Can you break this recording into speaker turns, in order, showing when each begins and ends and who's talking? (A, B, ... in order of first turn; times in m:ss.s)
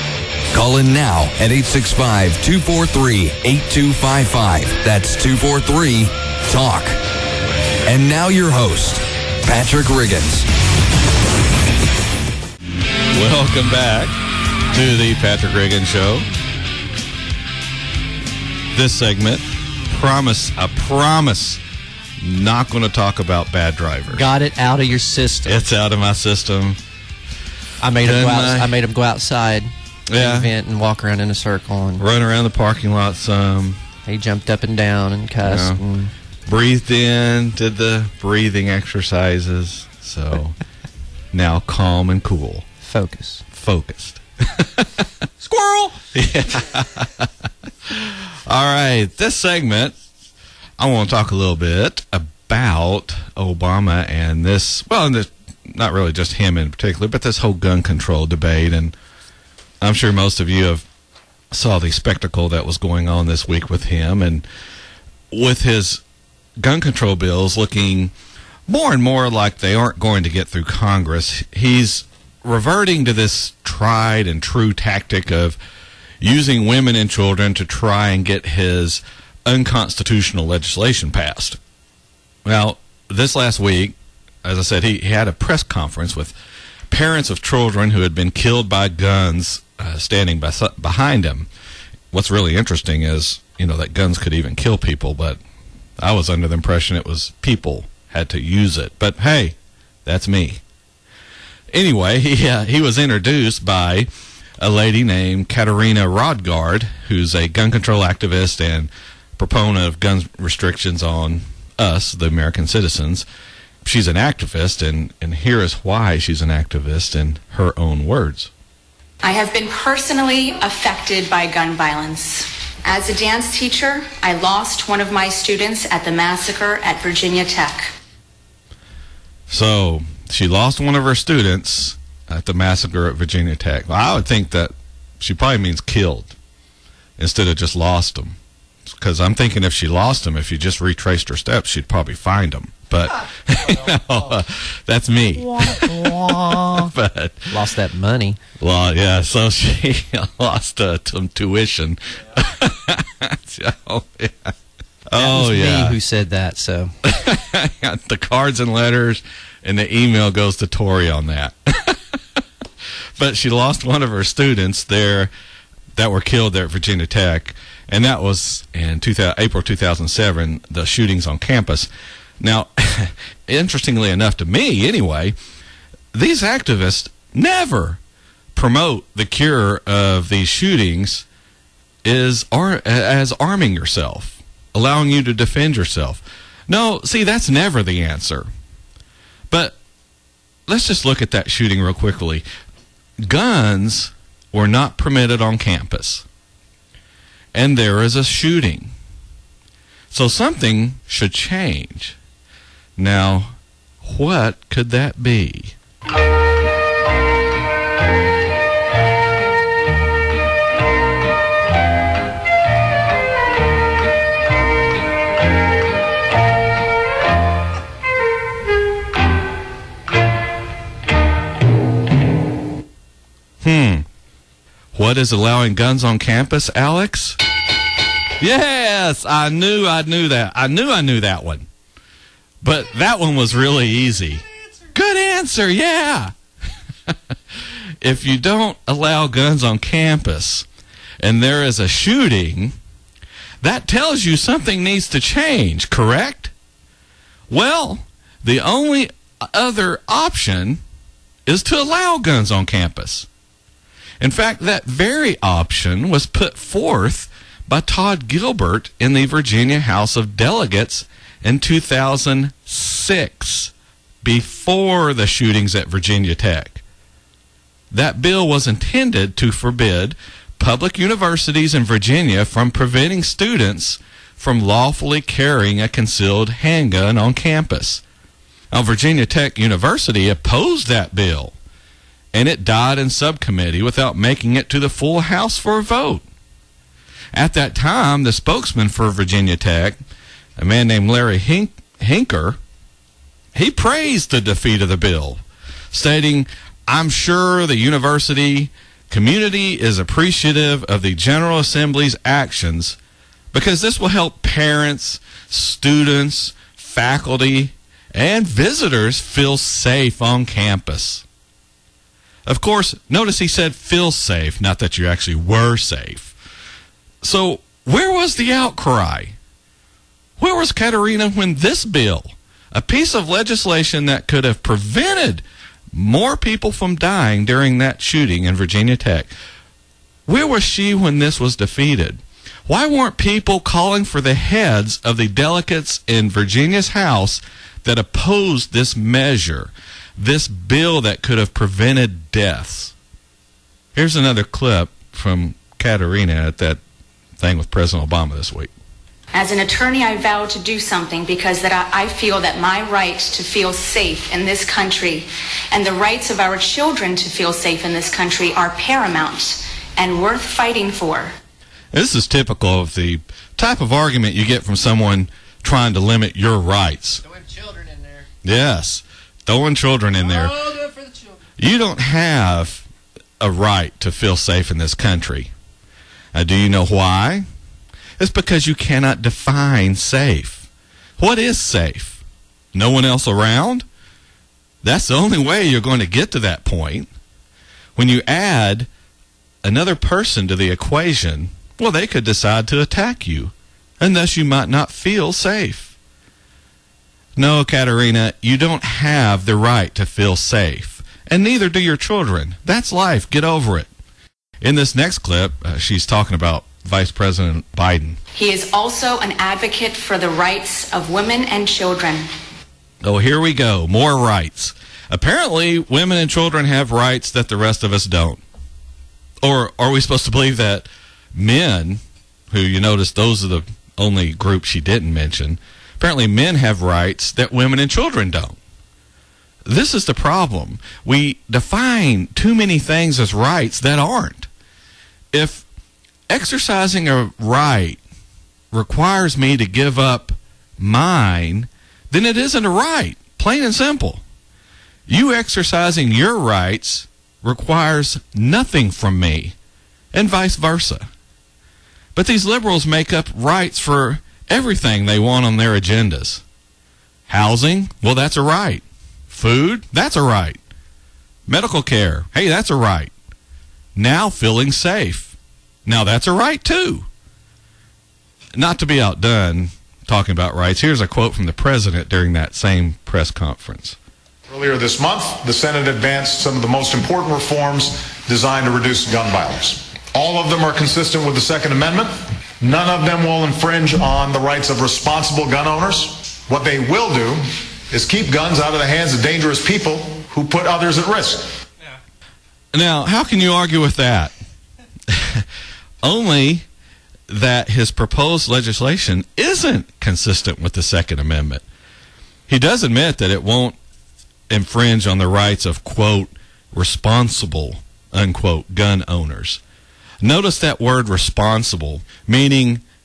0:00.5-0:07.0 A
0:07.8-0:10.5 A
0:13.1-0:14.1 B
0:14.7-0:16.2 B
0:18.7-0:21.6 B
0:22.2-0:24.2 B
0:24.1-0:25.6 C
0:25.4-0:26.8 B
0:27.8-0:32.0 C
0:28.0-0:28.7 B
0:30.1-0:30.5 B
0:32.0-0:33.8 B
0:34.0-0:36.1 C
0:35.4-0:35.8 B
0:36.5-0:40.6 B
0:41.3-0:42.6 B
0:42.8-0:43.4 C
0:43.5-0:44.9 B
0:45.4-0:45.9 C
0:46.1-0:47.3 B
0:47.9-0:49.9 B
0:50.8-0:58.9 B
0:59.8-1:00.8 B
1:01.5-1:04.4 B
1:05.3-1:06.0 B
1:06.6-1:08.1 B
1:08.7-1:15.6 B
1:16.2-1:21.6 B
1:22.4-1:26.3 B
1:26.9-1:31.5 B
1:32.1-1:35.4 B
1:36.0-1:40.6 B
1:41.7-1:44.1 B
1:44.6-1:53.2 B
1:53.8-1:58.5 B
1:59.2-2:07.9 D
2:09.5-2:16.3 B
2:17.2-2:18.4 B
2:18.9-2:27.5 B
2:27.5-2:28.4 C
2:28.6-2:34.5 B
2:35.1-2:36.0 B
2:35.1-2:36.9 C
2:37.0-2:42.4 B
2:43.2-2:45.3 B
2:45.9-2:51.9 B
2:52.4-2:55.3 B
2:56.1-2:58.0 B
2:58.5-3:01.2 B
3:02.0-3:08.5 B
3:09.5-3:09.8 B
3:10.7-3:12.4 B
3:13.2-3:16.2 B
3:17.5-3:18.9 B
3:20.1-3:22.2 B
3:23.0-3:25.7 B
3:43.6-3:44.0 B
3:44.9-3:47.4 B
3:48.4-3:51.7 B
3:52.6-3:56.3 B
3:58.0-4:00.7 B
4:01.2-4:02.7 B
4:03.6-4:06.5 B
4:07.5-4:10.8 B
4:11.5-4:13.3 B
4:14.2-4:26.8 B
4:27.9-4:38.0 B
4:38.7-4:41.6 B
4:42.3-4:46.2 B
4:47.3-4:50.0 B
4:50.6-4:52.6 B
4:53.5-5:03.0 B
5:03.5-5:11.2 B
5:12.4-5:16.3 B
5:17.2-5:19.4 B
5:20.4-5:25.4 B
5:25.9-5:29.3 B
5:30.3-5:42.9 B
5:43.9-5:46.8 B
5:47.4-5:48.7 B
5:49.3-6:01.3 D
6:01.9-6:07.2 B
6:07.3-6:08.2 C
6:08.4-6:10.7 B
6:10.8-6:11.1 C
6:11.6-6:12.8 B
6:13.4-6:15.5 B
6:16.3-6:17.4 B
6:18.2-6:22.2 B
6:22.7-6:23.8 B
6:24.8-6:27.1 B
6:28.0-6:28.9 B
6:29.6-6:35.9 B
6:37.4-6:43.9 B
6:44.6-6:48.2 B
6:48.3-6:52.2 D
6:53.0-6:58.4 B
6:59.4-7:08.6 B
7:09.6-7:14.5 B
7:15.3-7:15.6 B
7:16.3-7:18.0 B
7:18.7-7:24.2 B
7:25.1-7:29.5 B
7:30.1-7:31.0 B
7:32.1-7:36.4 B
7:37.3-7:40.6 B
7:41.5-7:43.1 B
7:44.0-7:45.3 B
7:45.8-7:47.1 B
7:48.6-7:54.0 B
7:54.5-8:11.4 E
8:12.7-8:14.3 B
8:15.1-8:15.4 B
8:16.0-8:16.6 B
8:17.3-8:21.6 B
8:22.5-8:23.8 B
8:24.5-8:29.6 B
8:30.2-8:32.8 B